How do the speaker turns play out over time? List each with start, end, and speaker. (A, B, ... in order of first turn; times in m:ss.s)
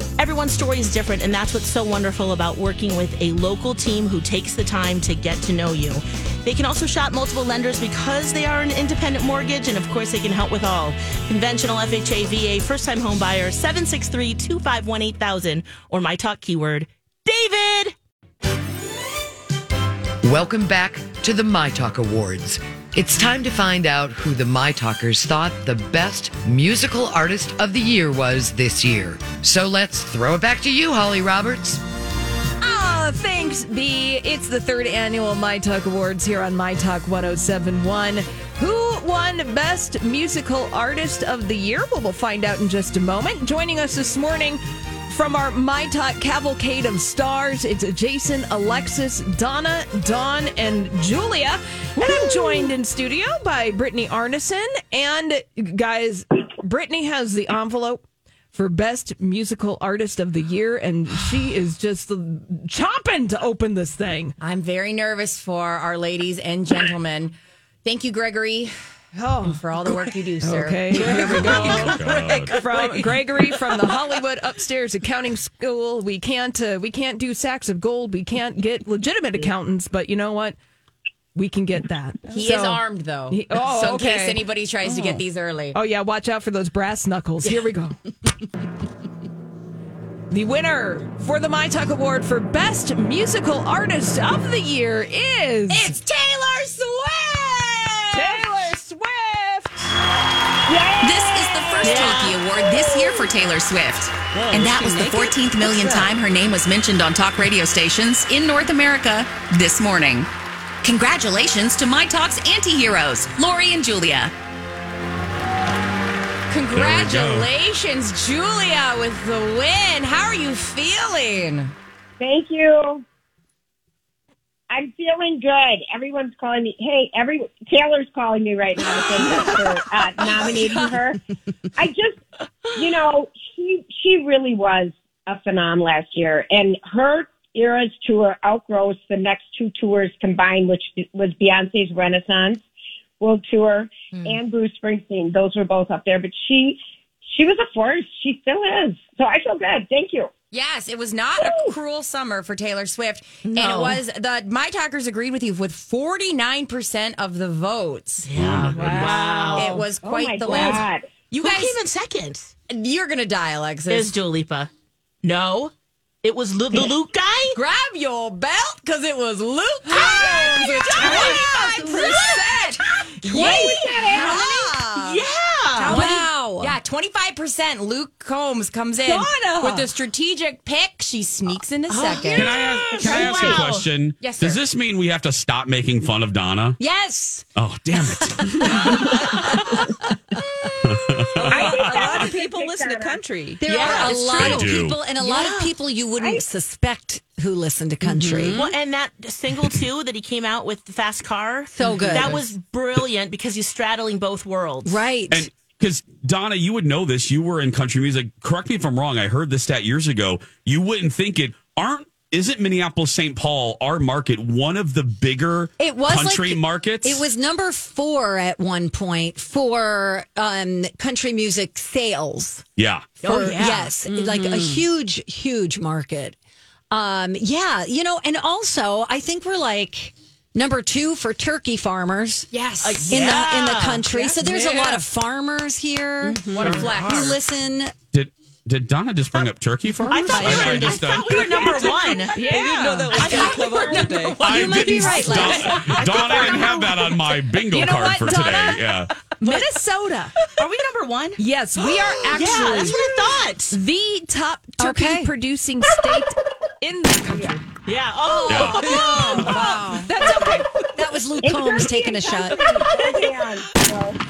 0:00.2-0:17.9 A
0:20.2-0:31.8 B
0:32.6-0:58.0 C
0:52.0-0:52.7 A
0:58.5-1:04.4 C
1:04.4-1:08.7 D
1:09.2-1:09.6 C
1:09.4-1:11.7 D
1:10.4-1:20.6 C
1:11.0-1:13.2 E
1:11.0-1:12.6 F
1:21.4-1:24.4 C
1:22.3-1:25.8 D
1:25.7-1:28.0 C
1:30.3-1:36.0 C
1:35.7-1:38.4 D
1:38.1-1:39.8 C
1:40.7-1:43.3 G
1:41.0-1:50.3 H
1:41.8-1:42.4 A
1:44.3-1:46.1 E
1:50.8-1:54.3 H
1:56.5-2:01.7 D
1:56.7-1:57.5 F
2:02.2-2:03.0 G
2:04.7-2:11.2 G
2:11.8-2:12.2 G
2:12.8-2:22.6 G
2:23.2-2:30.3 G
2:30.5-2:38.3 D
2:31.4-2:31.7 G
2:33.5-2:34.0 A
2:38.3-2:39.8 A
2:38.3-2:38.8 F
2:38.7-2:39.6 C
2:39.4-2:41.1 G
2:39.6-2:40.9 D
2:40.5-2:42.5 A
2:41.4-2:41.8 D
2:42.7-2:44.1 D
2:43.9-2:44.7 A
2:45.2-2:45.7 A
2:46.2-2:47.6 A
2:47.6-2:52.6 D
2:49.9-2:55.2 I
2:50.1-2:56.2 A
2:51.0-2:51.3 C
2:51.0-2:51.4 G
2:53.2-2:54.8 D
2:53.3-2:54.6 G
2:55.8-2:56.8 I
2:55.8-3:03.6 D
2:59.1-2:59.9 I
3:01.9-3:03.9 A
3:02.3-3:06.8 F
3:04.2-3:04.6 D
3:06.8-3:07.4 I
3:07.6-3:09.1 F
3:08.0-3:10.0 I
3:10.8-3:12.2 F
3:11.4-3:13.9 E
3:11.5-3:13.2 G
3:13.6-3:18.7 I
3:13.6-3:15.7 A
3:14.2-3:15.0 F
3:18.0-3:18.7 E
3:18.5-3:25.0 A
3:21.7-3:22.5 I
3:24.9-3:25.5 I
3:25.3-3:37.2 F
3:35.8-3:42.6 I
3:42.8-3:43.2 F
3:43.2-3:44.0 A
3:43.2-3:46.4 I
3:44.0-3:44.8 E
3:46.9-3:58.0 I
3:52.5-3:53.5 D
3:52.8-3:54.3 A
3:54.4-3:55.0 C
3:56.2-3:56.9 E
3:56.5-3:57.4 D
3:58.1-4:01.7 F
4:00.1-4:07.4 A
4:00.1-4:01.0 I
4:01.6-4:05.2 E
4:02.3-4:03.3 C
4:03.3-4:03.5 I
4:03.3-4:04.1 G
4:04.4-4:06.1 I
4:04.4-4:09.1 F
4:07.7-4:10.4 C
4:09.4-4:09.8 A
4:10.4-4:13.8 A
4:11.4-4:13.0 C
4:13.7-4:17.6 C
4:14.8-4:15.3 I
4:16.0-4:16.2 A
4:17.8-4:19.4 A
4:18.3-4:23.0 I
4:18.5-4:18.9 F
4:18.8-4:20.1 D
4:19.0-4:19.3 C
4:19.8-4:20.7 C
4:20.2-4:20.5 A
4:21.4-4:24.2 G
4:22.4-4:23.2 A